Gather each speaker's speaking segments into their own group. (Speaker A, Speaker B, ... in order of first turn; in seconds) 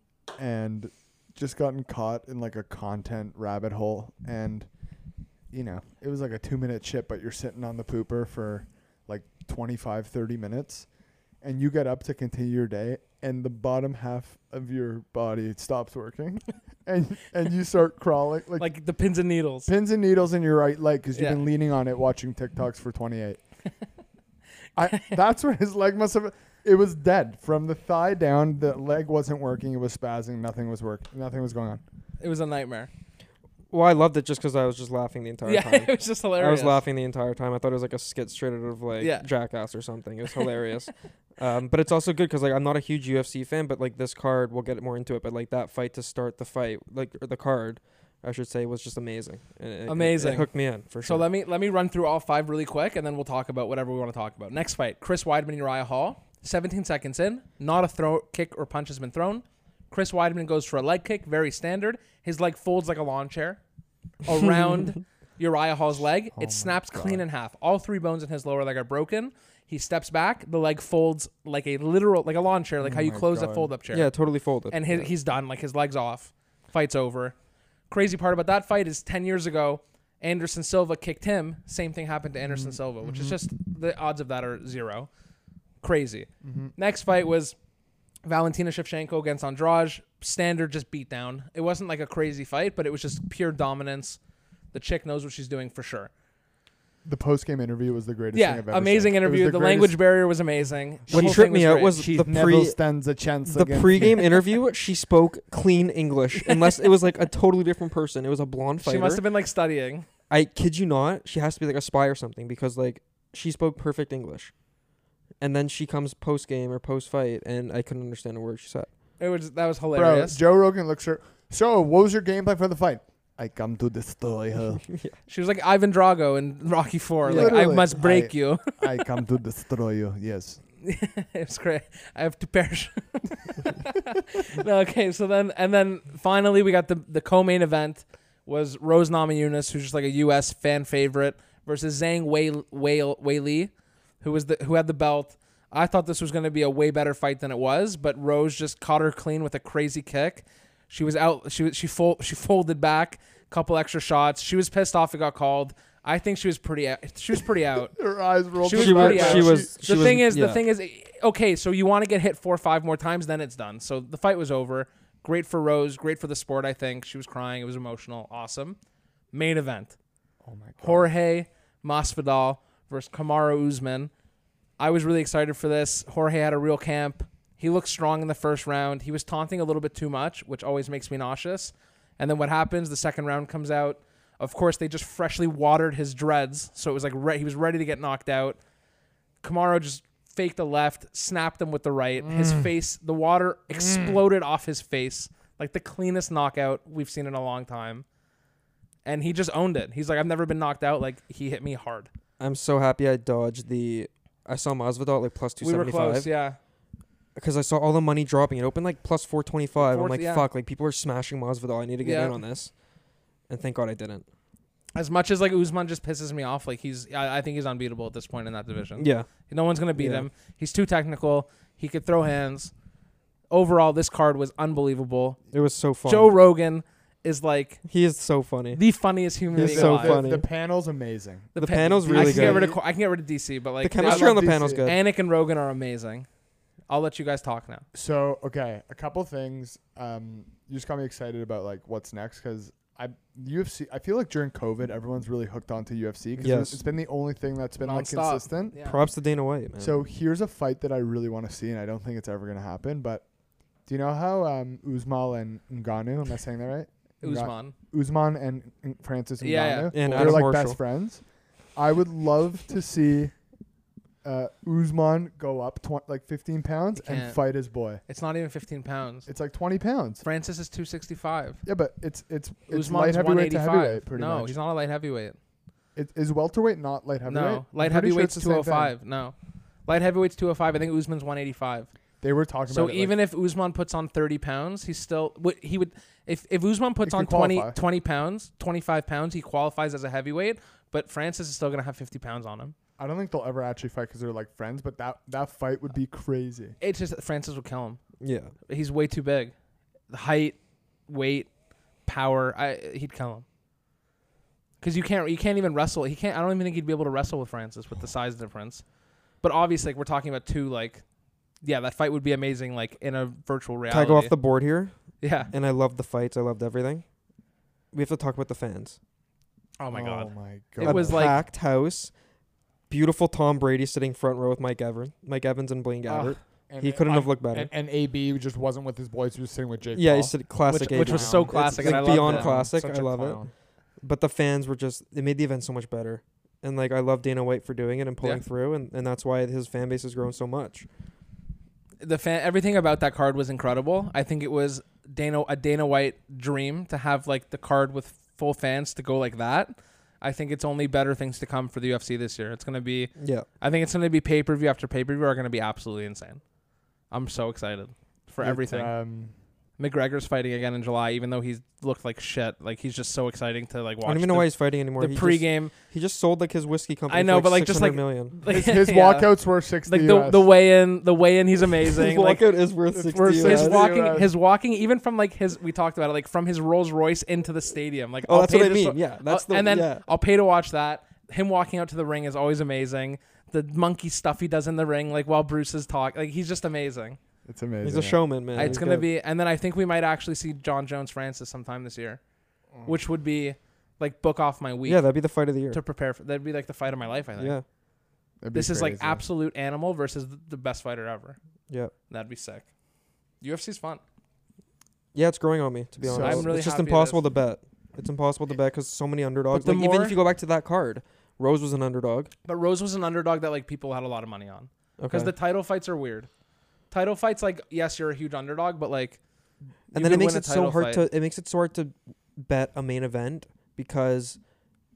Speaker A: 0.4-4.7, 5.5-10.9, 11.4-18.7, 19.7-23.4, 24.8-31.8, 66.3-67.2, 72.8-73.7, 82.5-83.4, 86.4-86.7, 97.0-100.0, 101.1-104.2, 119.9-124.9, 127.3-130.6, 158.0-160.2, 170.4-171.1, 192.3-192.7, 193.7-194.2, 229.6-232.8, 234.0-234.9, 237.9-248.8, 249.8-253.3, 253.9-261.2, 261.8-263.3, 264.2-268.0, 269.3-270.3, 271.6-274.6, 276.0-278.9, 282.2-283.2, 287.0-287.8, 293.0-296.8, 319.9-321.3, 326.7-333.5, 358.4-359.3, 368.5-370.5, 372.9-374.4, 387.4-388.8, 398.4-399.2, 406.0-406.5
Speaker B: 18.6-19.7, 21.1-21.4, 32.2-32.9, 35.5-36.8, 39.0-39.3, 49.9-63.6, 64.2-74.1, 74.7-77.3, 77.9-85.1, 85.8-87.6, 88.2-94.2, 94.7-96.1, 98.3-102.0, 108.8-110.1, 119.2-120.4, 125.3-128.8, 130.8-158.0, 158.6-168.8, 169.3-169.9, 170.8-174.1, 174.8-188.6, 189.4-198.1, 199.1-202.1, 205.6-206.6, 209.8-210.5, 212.0-212.4, 214.9-222.7, 223.5-225.4, 226.1-227.8, 228.7-230.2, 231.6-236.3, 236.9-237.8, 247.8-249.0, 257.2-257.7, 259.4-260.4, 267.0-267.4, 268.1-269.3, 270.2-271.6, 272.7-275.4, 277.3-279.3, 279.9-281.9, 282.7-292.8, 296.8-298.0, 298.7-299.5, 300.1-301.5, 302.1-303.4, 304.8-308.8, 309.4-311.0, 311.6-314.4, 315.2-315.5, 319.8-321.4, 326.1-326.4, 330.7-333.4, 342.0-356.4, 357.1-358.9, 359.8-365.7, 367.1-372.4, 373.1-387.2, 388.6-392.2, 392.8-395.0, 395.7-397.6, 398.5-401.4, 402.1-402.7, 403.4-404.0, 406.2-407.2, 409.5-410.2, 412.4-416.3, 416.9-419.2, 419.9-421.1
Speaker C: 33.7-51.3, 73.9-75.1, 101.1-102.8, 103.5-109.2, 110.3-114.5, 115.4-118.9, 127.2-127.7, 158.7-160.6, 202.4-206.3, 207.4-212.7, 213.5-214.3, 219.0-219.3, 219.9-220.3, 225.5-226.3, 227.9-228.8, 229.6-230.5, 231.6-232.7, 233.8-235.0, 246.4-246.8, 248.8-250.0, 259.9-260.8, 298.2-298.5, 313.9-314.9, 315.5-317.1, 317.9-319.0, 320.8-322.1, 322.9-327.7, 329.9-333.4, 334.0-340.9, 353.2-353.5, 364.1-368.4, 371.8-373.9, 378.2-380.1, 387.8-389.1, 394.9-395.8, 397.4-397.6, 405.1-412.3, 415.0-415.3, 419.9-424.4